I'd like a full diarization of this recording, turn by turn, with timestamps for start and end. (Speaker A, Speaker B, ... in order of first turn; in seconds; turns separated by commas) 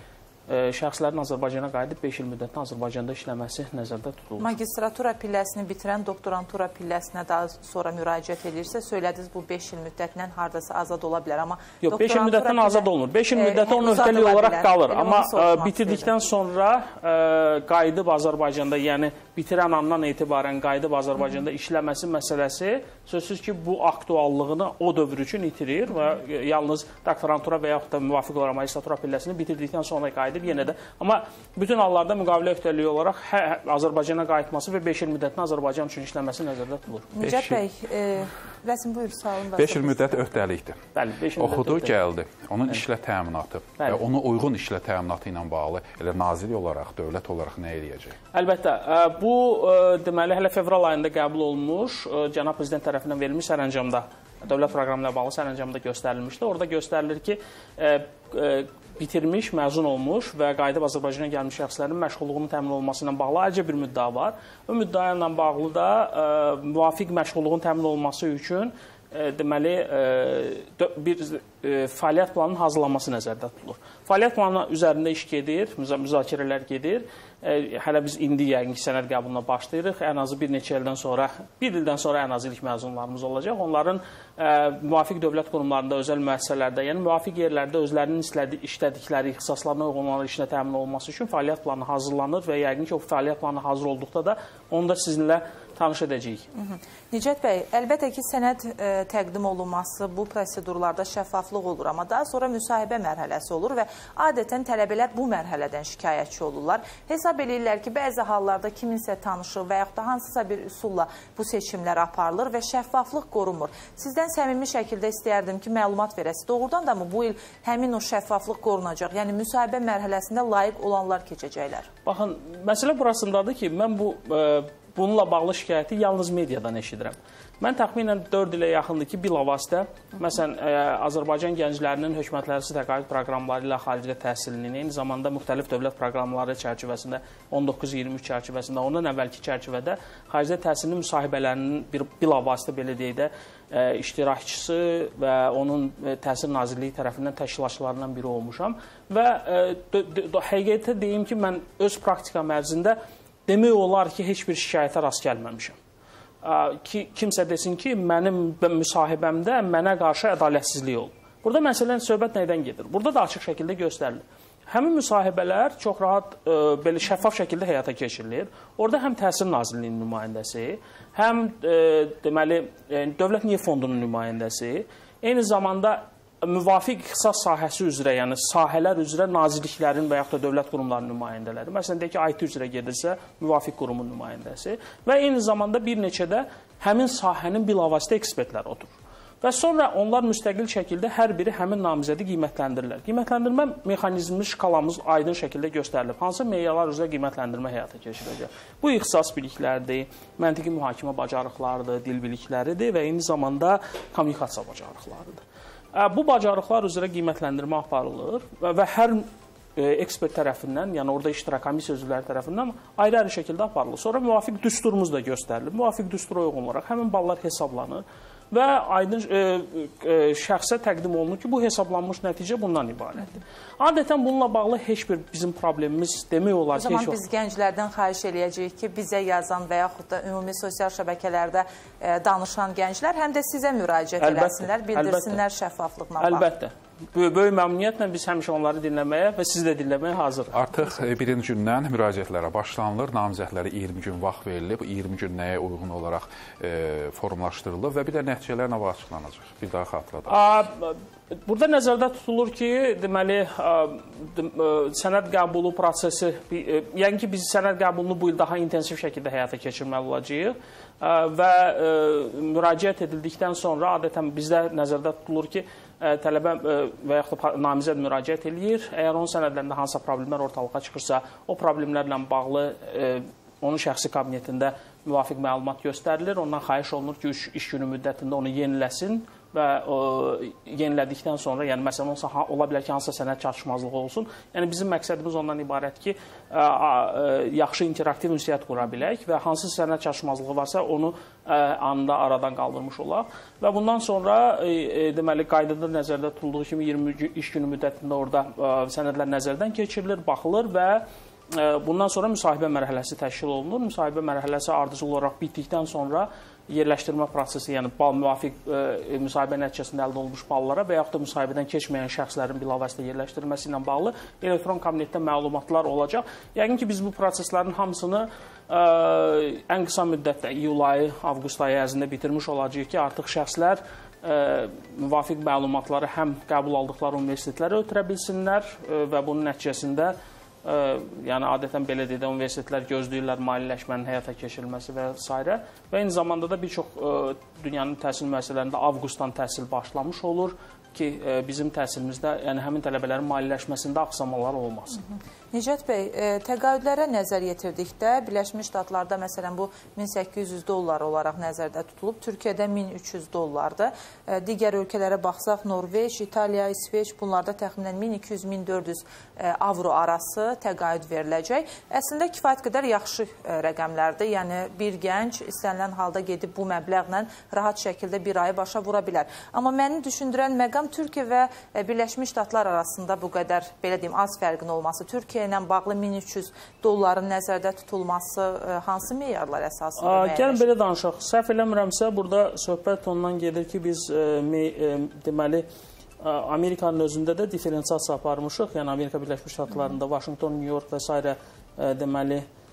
Speaker A: 0.5-4.5, Speaker B: 4.4-16.1, Speaker A: 11.8-37.1, Speaker B: 37.1-40.3, Speaker C: 37.2-37.6, Speaker C: 39.6-40.8, Speaker A: 40.9-41.9, Speaker C: 41.4-48.2, Speaker A: 48.3-96.5, Speaker B: 96.5-121.9, Speaker A: 122.0-155.8, Speaker A: 156.4-205.4, Speaker A: 205.9-227.2, Speaker B: 226.8-236.5, Speaker A: 234.2-235.4, Speaker A: 236.2-240.6, Speaker C: 240.5-250.4, Speaker A: 250.3-345.0, Speaker B: 345.1-380.7, Speaker A: 380.0-385.6, Speaker A: 386.2-392.4